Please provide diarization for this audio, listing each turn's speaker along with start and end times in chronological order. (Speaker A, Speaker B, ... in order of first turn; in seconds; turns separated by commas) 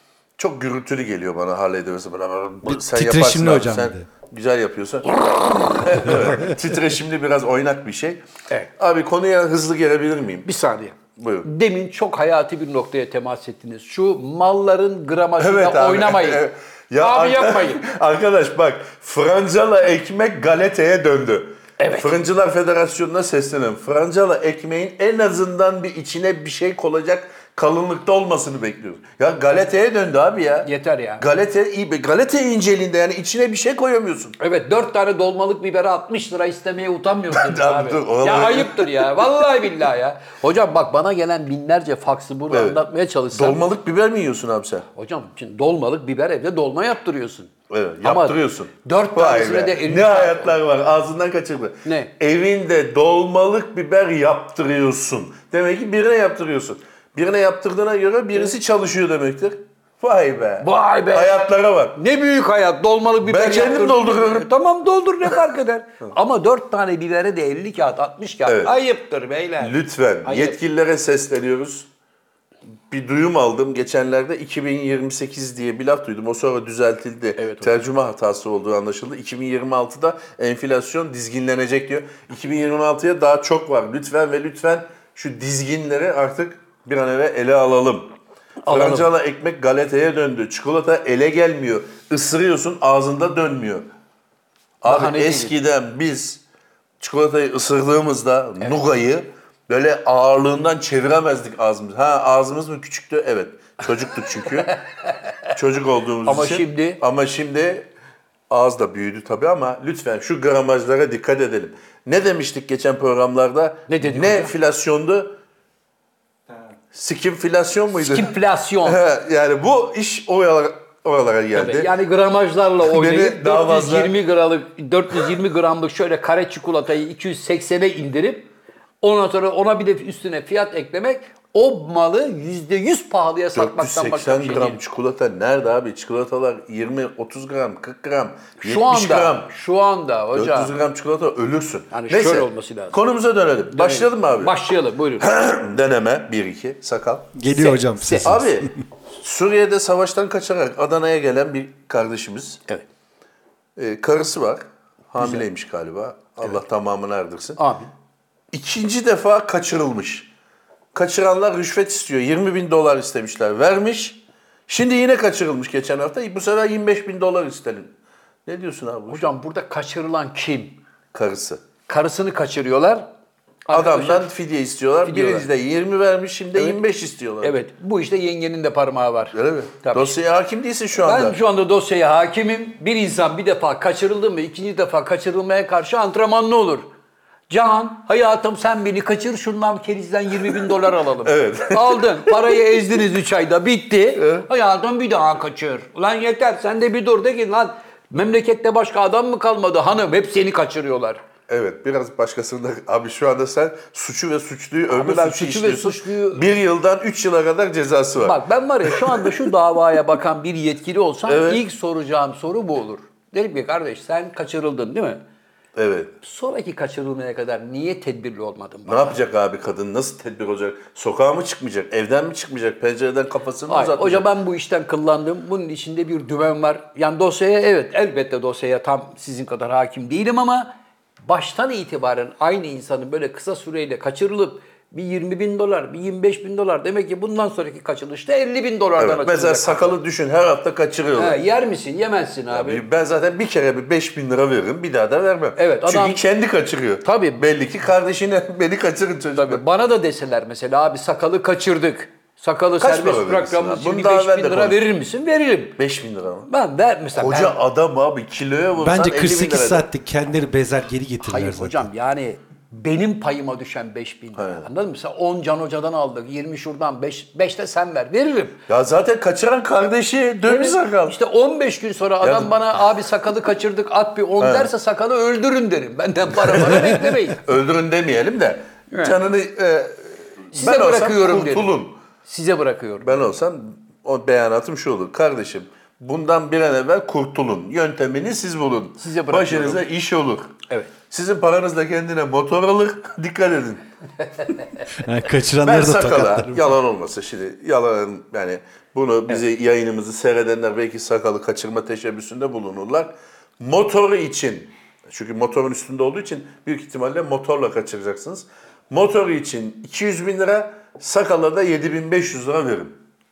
Speaker A: 0.4-8.2, Speaker B: 2.6-4.0, Speaker A: 8.8-10.5, Speaker C: 10.4-16.4, Speaker A: 11.2-11.5, Speaker A: 15.4-34.4, Speaker C: 17.0-17.8, Speaker C: 21.8-22.2, Speaker C: 30.6-31.2, Speaker C: 34.4-43.6, Speaker A: 37.3-39.4, Speaker A: 42.5-44.9, Speaker C: 44.9-47.5, Speaker A: 47.7-62.0, Speaker C: 48.0-50.6, Speaker C: 51.8-52.1, Speaker C: 60.6-61.4, Speaker C: 62.0-70.6, Speaker A: 63.2-64.5, Speaker A: 68.5-68.7, Speaker A: 69.6-71.9, Speaker A: 72.9-88.1, Speaker C: 77.4-77.7, Speaker C: 88.6-89.1, Speaker A: 88.7-93.9, Speaker A: 94.8-96.4, Speaker C: 94.8-95.5, Speaker A: 97.0-104.8, Speaker C: 104.7-105.5, Speaker A: 105.5-107.9, Speaker C: 106.2-107.0, Speaker A: 108.5-115.3, Speaker C: 113.9-114.5, Speaker A: 116.9-118.3, Speaker C: 117.9-119.0, Speaker A: 118.8-121.9, Speaker C: 121.5-128.5, Speaker A: 122.8-124.2, Speaker C: 129.0-134.8, Speaker A: 133.5-139.5, Speaker C: 138.6-140.7, Speaker A: 140.3-144.6, Speaker C: 141.9-143.0, Speaker C: 143.7-145.3, Speaker A: 145.2-147.4, Speaker B: 147.3-148.7, Speaker C: 147.5-148.3, Speaker A: 148.1-152.6, Speaker A: 153.8-157.6, Speaker C: 155.2-155.4, Speaker C: 157.6-157.9, Speaker A: 158.5-160.3, Speaker A: 160.9-167.9, Speaker A: 168.4-169.3, Speaker C: 169.1-170.8, Speaker A: 171.1-171.6, Speaker C: 171.9-173.1, Speaker C: 173.7-174.3, Speaker A: 173.7-177.6, Speaker C: 175.0-175.5, Speaker C: 177.4-180.2, Speaker A: 179.3-181.4, Speaker C: 181.0-186.9, Speaker C: 187.5-201.2, Speaker A: 191.2-192.5, Speaker A: 194.2-194.4, Speaker A: 201.5-209.5, Speaker C: 204.9-206.5, Speaker C: 208.2-215.2, Speaker A: 211.2-211.6, Speaker A: 215.7-216.1, Speaker C: 216.2-219.2, Speaker A: 218.8-224.3, Speaker C: 223.7-230.7, Speaker C: 231.2-240.0, Speaker A: 239.0-241.4, Speaker C: 241.2-242.8, Speaker A: 242.5-249.6, Speaker C: 245.6-246.2, Speaker C: 247.0-247.4, Speaker C: 249.3-255.8, Speaker A: 252.8-254.8, Speaker A: 255.8-256.5, Speaker C: 256.5-257.6, Speaker A: 257.1-259.9, Speaker B: 258.8-261.9, Speaker C: 261.2-268.6, Speaker A: 264.4-264.6, Speaker A: 268.7-271.2, Speaker C: 270.5-277.4, Speaker A: 272.2-272.5, Speaker A: 274.4-274.7, Speaker A: 276.3-282.0, Speaker C: 278.9-279.1, Speaker C: 280.5-283.2, Speaker A: 283.0-290.5, Speaker C: 289.0-289.8, Speaker A: 291.1-293.8, Speaker B: 294.9-296.7, Speaker A: 295.6-313.0